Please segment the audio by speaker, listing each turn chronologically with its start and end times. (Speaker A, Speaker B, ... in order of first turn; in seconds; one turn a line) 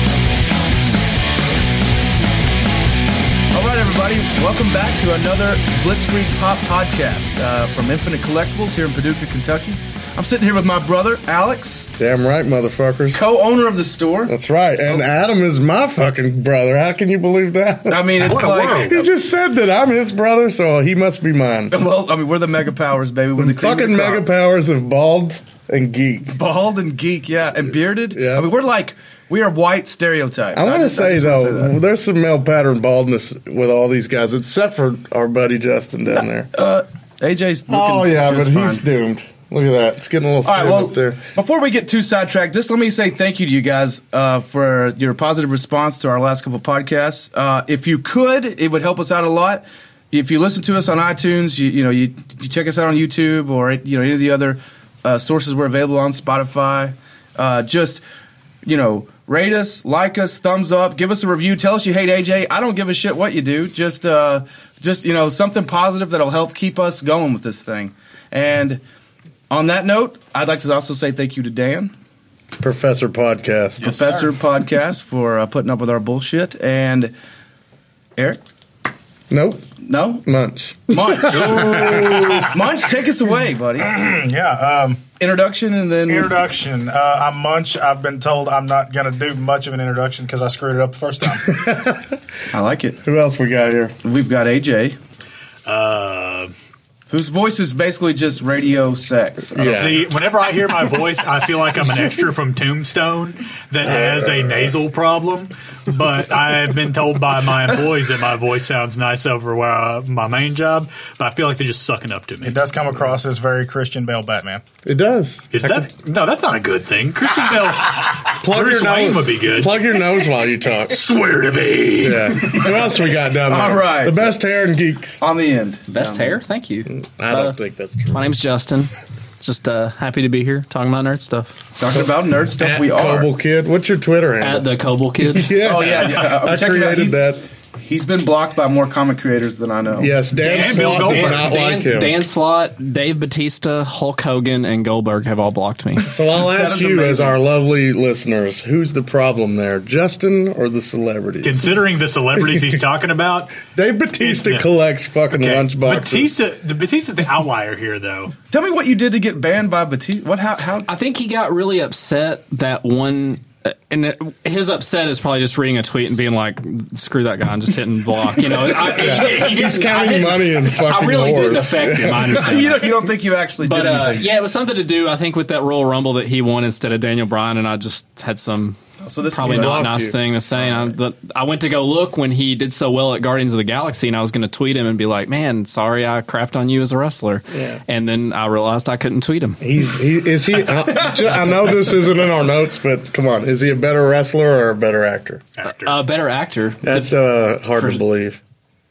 Speaker A: 3.5-11.9
Speaker B: 12.0-13.2
Speaker A: 13.1-14.3
Speaker B: 14.2-21.8
Speaker A: 17.9-19.1
Speaker C: 18.2-19.1
Speaker A: 21.7-24.3
Speaker B: 23.4-26.4
Speaker A: 26.3-31.7
Speaker B: 28.1-28.5
Speaker B: 30.5-36.5
Speaker A: 36.5-38.8
Speaker B: 37.7-41.2
Speaker A: 40.4-58.0
Speaker A: 58.6-68.8
Speaker A: 69.5-71.9
Speaker B: 72.6-74.0
Speaker A: 73.8-77.1
Speaker B: 79.3-79.7
Speaker A: 79.8-80.2
Speaker B: 80.2-82.6
Speaker A: 80.9-83.9
Speaker D: 81.6-82.4
Speaker D: 83.8-85.1
Speaker A: 85.2-86.3
Speaker D: 86.1-91.5
Speaker B: 91.4-92.2
Speaker A: 92.5-93.0
Speaker B: 93.0-94.0
Speaker A: 94.0-95.0
Speaker C: 95.7-96.5
Speaker A: 97.1-99.9
Speaker B: 99.5-100.0
Speaker C: 99.6-112.6
Speaker B: 103.8-104.8
Speaker D: 112.4-114.7
Speaker B: 114.8-115.7
Speaker C: 115.5-119.8
Speaker B: 118.4-121.0
Speaker C: 120.9-122.7
Speaker B: 122.0-125.2
Speaker A: 122.4-122.9
Speaker A: 123.5-124.2
Speaker A: 125.2-126.4
Speaker E: 125.9-127.6
Speaker B: 126.9-128.2
Speaker E: 128.1-131.6
Speaker A: 131.8-133.3
Speaker B: 132.6-137.4
Speaker E: 134.4-135.7
Speaker A: 135.6-137.2
Speaker A: 137.8-140.1
Speaker B: 140.0-142.2
Speaker C: 140.4-141.7
Speaker E: 140.4-146.1
Speaker B: 146.0-151.7
Speaker A: 146.4-147.4
Speaker C: 151.4-153.6
Speaker B: 152.4-152.7
Speaker B: 153.7-156.3
Speaker C: 154.2-154.7
Speaker C: 155.3-158.3
Speaker A: 158.5-160.9
Speaker E: 160.9-173.1
Speaker B: 168.8-172.6
Speaker A: 172.2-174.3
Speaker E: 173.6-189.6
Speaker A: 179.0-179.9
Speaker B: 179.3-180.2
Speaker B: 187.5-187.8
Speaker B: 189.6-195.4
Speaker C: 195.6-196.0
Speaker E: 195.8-197.1
Speaker B: 196.8-198.4
Speaker E: 197.8-198.0